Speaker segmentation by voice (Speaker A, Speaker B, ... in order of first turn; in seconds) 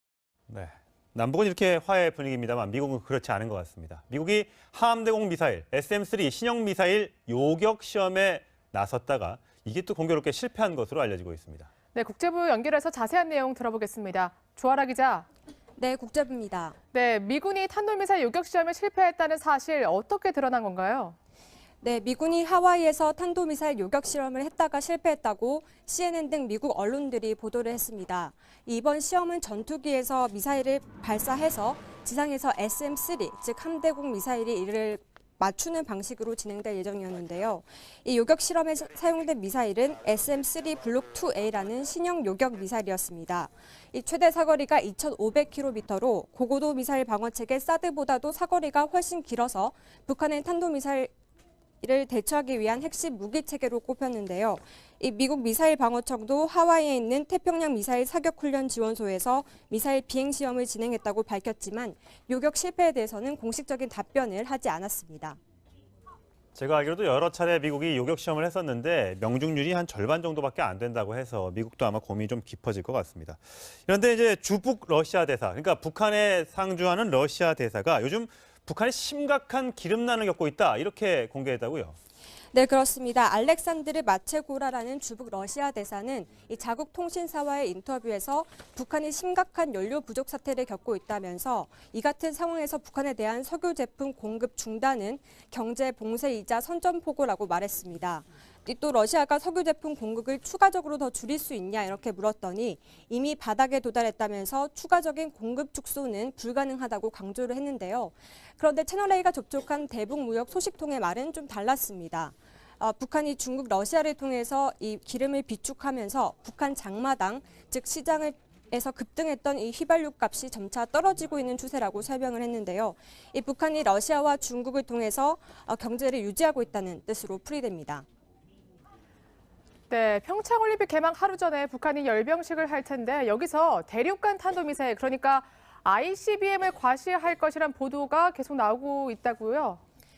Speaker A: 0.5-11.7, 66.5-82.0
Speaker B: 11.9-15.3, 16.9-21.1, 129.9-139.8
Speaker C: 15.8-16.8, 21.8-51.1, 51.8-65.4, 82.5-128.0